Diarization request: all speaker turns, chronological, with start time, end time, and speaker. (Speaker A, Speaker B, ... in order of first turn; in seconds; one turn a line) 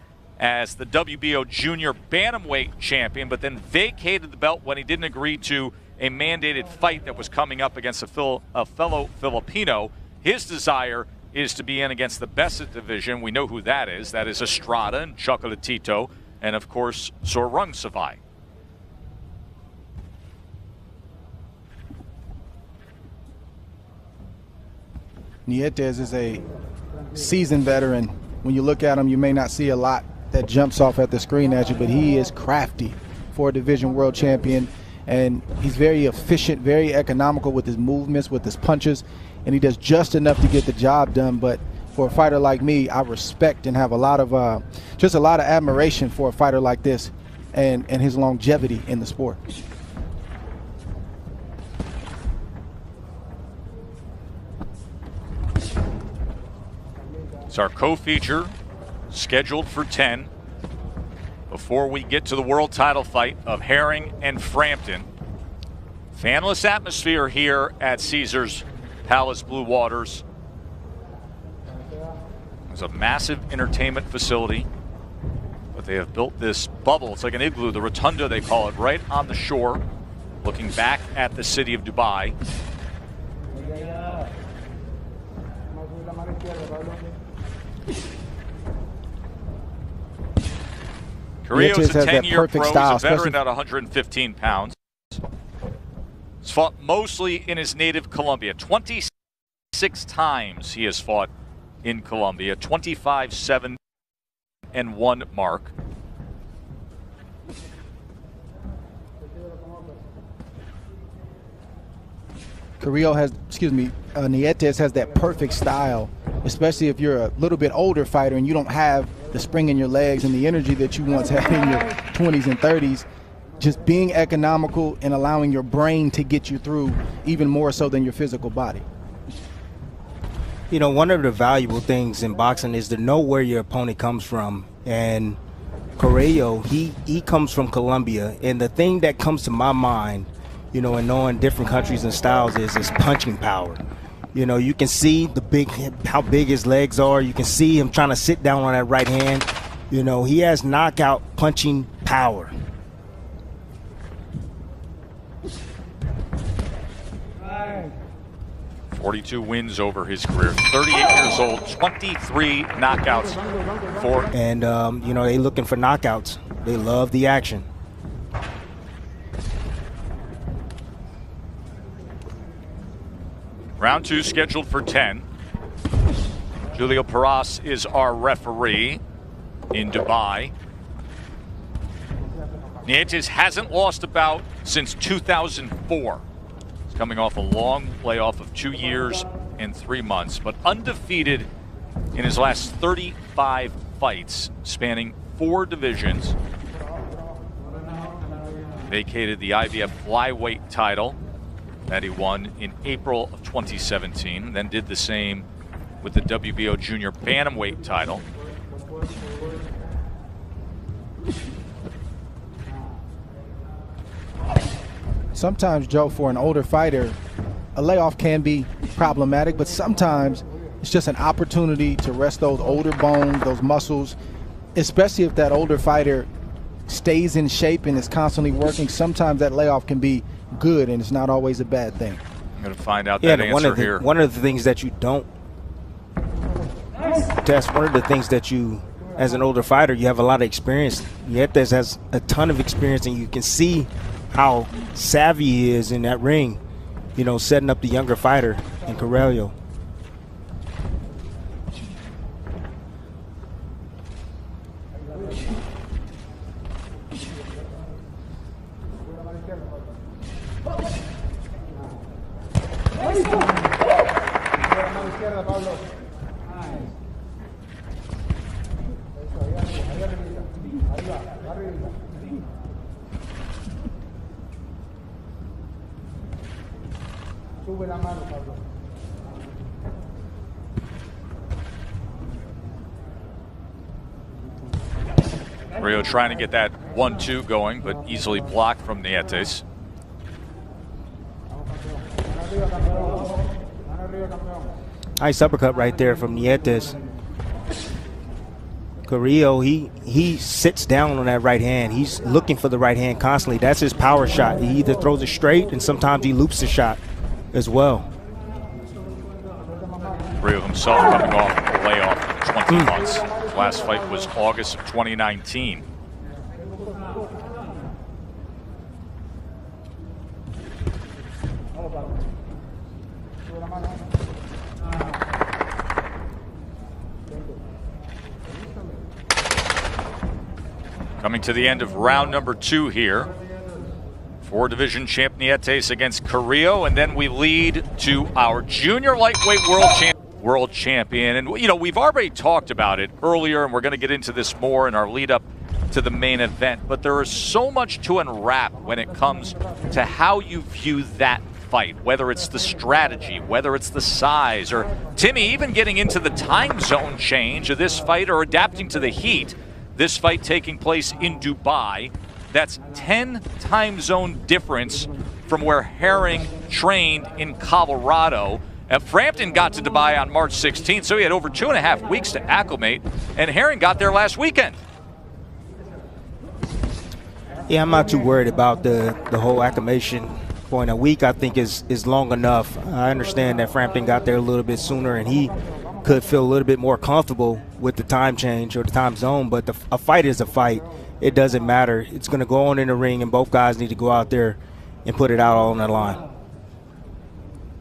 Speaker A: 0.4-18.2
Speaker B: 25.5-26.4
Speaker B: 27.1-49.4
Speaker A: 57.5-58.5
Speaker A: 59.1-60.3
Speaker A: 61.5-65.1
Speaker A: 66.1-70.2
Speaker A: 72.7-74.7
Speaker A: 75.8-79.8
Speaker A: 80.4-82.4
Speaker A: 91.4-94.8
Speaker B: 91.5-93.4
Speaker A: 96.4-99.1
Speaker A: 99.7-101.3
Speaker A: 101.8-103.8
Speaker A: 104.7-105.7
Speaker B: 112.8-123.1
Speaker B: 123.6-128.9
Speaker C: 130.7-135.4
Speaker C: 136.0-143.8
Speaker C: 144.3-152.5
Speaker A: 158.9-163.4
Speaker A: 164.0-164.3
Speaker C: 164.3-167.7
Speaker A: 173.8-175.3
Speaker A: 176.7-179.0
Speaker A: 179.7-180.5
Speaker A: 182.9-186.2
Speaker A: 186.9-191.5
Speaker A: 192.1-196.4
Speaker A: 198.9-201.2
Speaker A: 201.9-205.4
Speaker A: 206.0-208.2
Speaker B: 215.3-217.2
Speaker B: 217.8-224.2
Speaker B: 224.8-226.3
Speaker B: 226.9-232.2
Speaker A: 232.6-234.0
Speaker C: 233.2-235.3
Speaker C: 237.4-246.6
Speaker C: 247.2-249.5
Speaker A: 285.8-289.6
Speaker C: 295.2-297.0
Speaker C: 299.1-307.0
Speaker C: 307.5-308.1
Speaker A: 310.4-315.8
Speaker A: 331.2-333.3
Speaker A: 334.4-374.8
Speaker C: 377.7-385.5
Speaker C: 386.0-396.2